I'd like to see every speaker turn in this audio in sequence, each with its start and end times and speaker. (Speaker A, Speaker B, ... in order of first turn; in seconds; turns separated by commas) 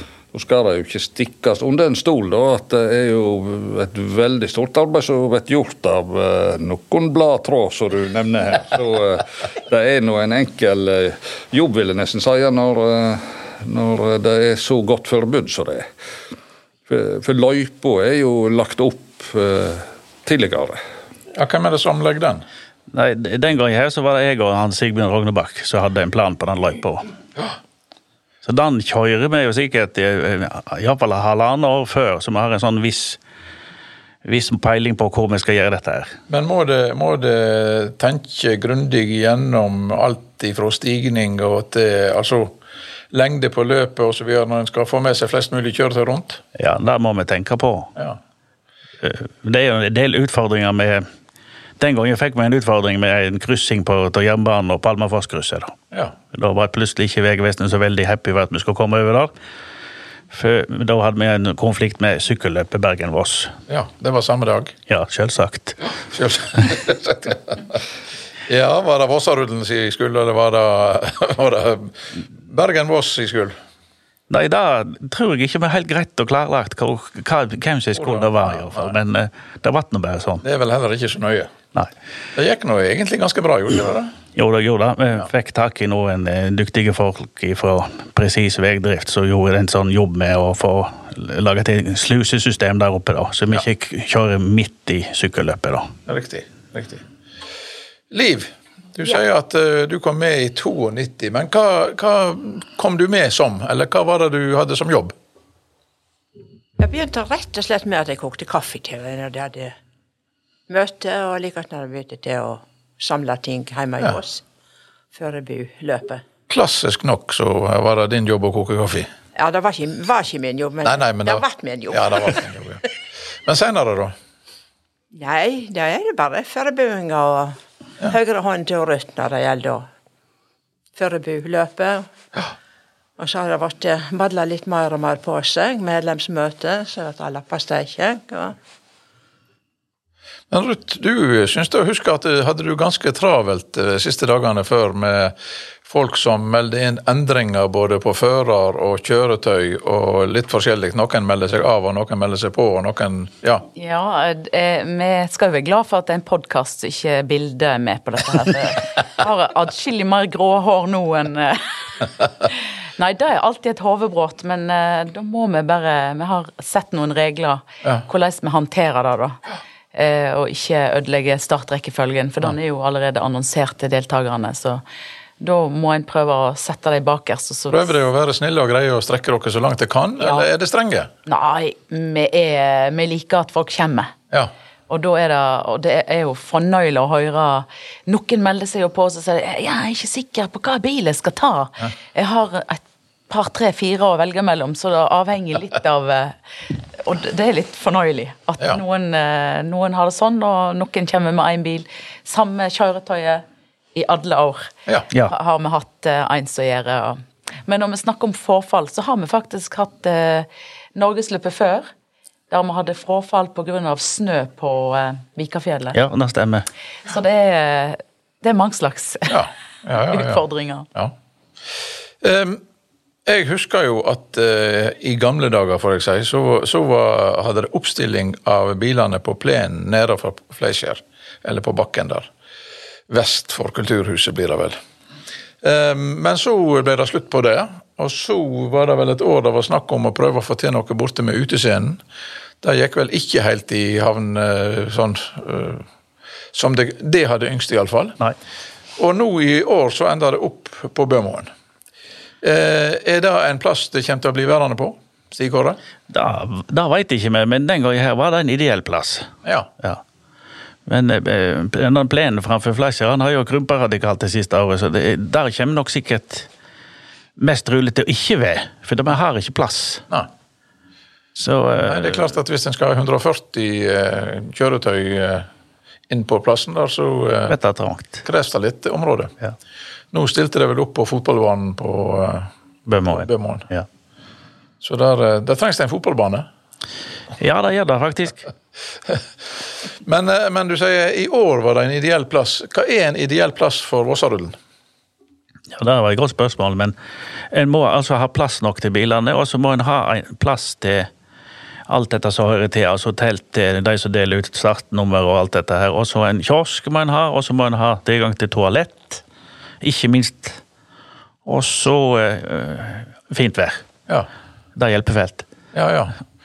Speaker A: 0.3-15.8, Speaker A: 16.9-20.8, Speaker B: 21.3-22.4, Speaker C: 22.9-27.1, Speaker C: 28.4-33.2, Speaker C: 34.2-36.2, Speaker B: 36.3-42.5, Speaker B: 43.1-46.4, Speaker C: 46.5-47.9, Speaker C: 49.0-51.0, Speaker C: 51.8-55.8, Speaker C: 56.3-59.3, Speaker C: 60.3-63.5, Speaker B: 63.7-64.7, Speaker C: 64.9-65.9, Speaker B: 66.1-67.8, Speaker B: 68.5-73.5, Speaker C: 74.3-80.4, Speaker B: 78.0-79.0, Speaker B: 80.4-81.5, Speaker B: 82.3-84.1, Speaker C: 84.3-95.9, Speaker B: 96.1-97.0, Speaker B: 98.1-105.1, Speaker D: 106.8-109.7, Speaker D: 110.7-114.4, Speaker D: 115.1-116.2, Speaker B: 116.5-119.1, Speaker D: 119.3-122.4, Speaker B: 120.8-122.8, Speaker B: 123.4-124.1, Speaker D: 125.1-129.9, Speaker D: 130.9-132.1, Speaker D: 133.2-138.5, Speaker B: 140.5-153.7, Speaker E: 153.7-169.4, Speaker E: 169.9-174.8, Speaker E: 175.4-177.9, Speaker B: 177.7-181.1, Speaker E: 180.2-180.5, Speaker E: 181.2-184.1, Speaker E: 184.9-203.4, Speaker E: 203.9-211.9, Speaker E: 212.5-216.0, Speaker C: 215.9-216.7, Speaker E: 217.1-219.4, Speaker B: 219.3-220.4, Speaker E: 220.1-220.9, Speaker B: 222.2-222.6, Speaker B: 223.2-232.3, Speaker B: 233.1-234.8, Speaker B: 235.6-242.0, Speaker B: 242.6-245.8, Speaker B: 246.5-248.2, Speaker B: 249.0-251.5, Speaker B: 252.4-255.8, Speaker C: 256.1-259.3, Speaker C: 260.9-266.5, Speaker C: 267.4-270.0, Speaker C: 271.4-272.3, Speaker B: 271.9-275.5, Speaker B: 276.1-277.5, Speaker C: 277.5-278.2, Speaker B: 278.2-279.3, Speaker B: 280.1-282.5, Speaker C: 282.9-283.9, Speaker B: 283.1-283.7, Speaker B: 284.8-286.5, Speaker C: 287.4-288.5, Speaker B: 290.0-294.5, Speaker C: 295.7-296.9, Speaker C: 297.5-301.1, Speaker C: 301.9-309.2, Speaker C: 309.8-310.6, Speaker C: 311.4-313.8, Speaker C: 314.8-315.4, Speaker B: 315.7-316.1